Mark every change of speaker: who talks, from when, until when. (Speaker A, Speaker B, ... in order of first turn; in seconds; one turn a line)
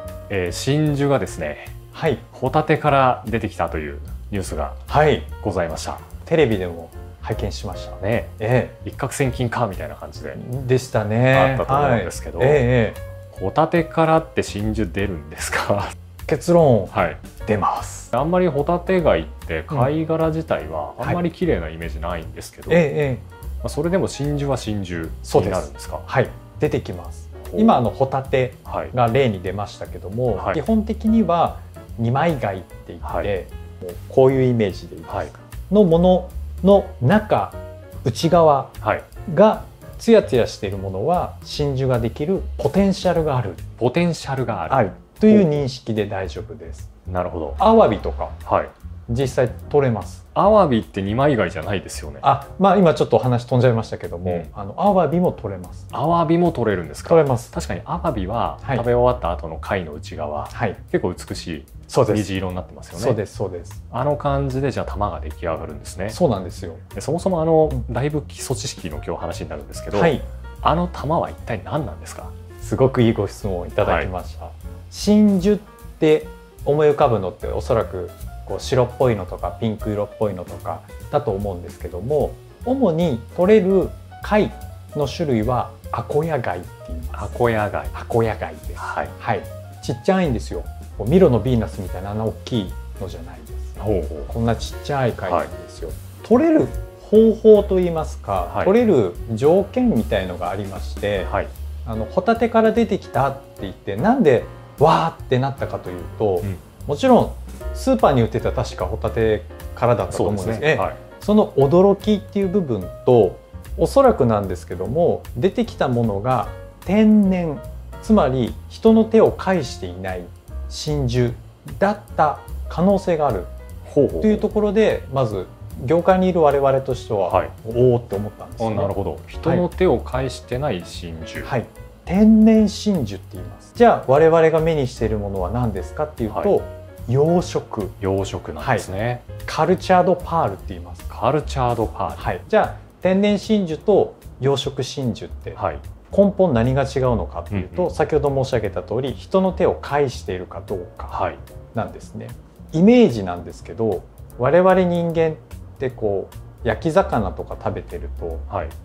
Speaker A: 0.3-1.7
Speaker B: 1.9-2.2
Speaker A: 2.3-4.8
Speaker B: 4.9-5.3
Speaker A: 5.4-6.0
Speaker B: 6.2-8.8
Speaker A: 8.0-8.3
Speaker A: 8.8-10.4
Speaker B: 10.3-13.0
Speaker A: 11.3-12.6
Speaker A: 13.3-15.9
Speaker B: 16.3-18.1
Speaker A: 16.9-17.2
Speaker A: 18.1-22.9
Speaker B: 22.7-23.2
Speaker A: 23.6-26.1
Speaker B: 25.2-43.6
Speaker A: 27.4-27.8
Speaker A: 28.6-28.9
Speaker A: 30.3-30.6
Speaker A: 33.0-33.3
Speaker A: 35.1-35.3
Speaker A: 43.8-45.6
Speaker B: 44.7-46.9
Speaker A: 47.1-47.6
Speaker B: 47.6-48.4
Speaker A: 48.4-48.7
Speaker B: 49.1-50.2
Speaker A: 50.3-52.2
Speaker B: 52.2-55.9
Speaker A: 55.9-63.2
Speaker B: 57.0-57.5
Speaker B: 60.5-60.8
Speaker B: 61.9-62.3
Speaker B: 62.9-63.8
Speaker A: 63.9-66.2
Speaker B: 66.1-66.8
Speaker A: 66.9-72.3
Speaker B: 69.9-70.2
Speaker B: 72.6-87.3
Speaker A: 73.8-74.1
Speaker A: 87.1-87.9
Speaker B: 87.9-101.3
Speaker A: 88.8-89.1
Speaker A: 93.8-94.3
Speaker A: 98.5-98.7
Speaker B: 101.8-123.5
Speaker A: 110.1-111.0
Speaker A: 123.8-124.5
Speaker B: 124.2-128.9
Speaker A: 127.3-127.5
Speaker A: 128.6-131.5
Speaker B: 131.4-138.0
Speaker A: 138.0-139.2
Speaker B: 138.6-138.9
Speaker B: 139.4-141.1
Speaker A: 141.1-142.2
Speaker B: 142.2-151.2
Speaker A: 145.6-145.8
Speaker A: 147.5-147.9
Speaker A: 151.1-151.4
Speaker B: 151.7-158.4
Speaker A: 158.5-158.7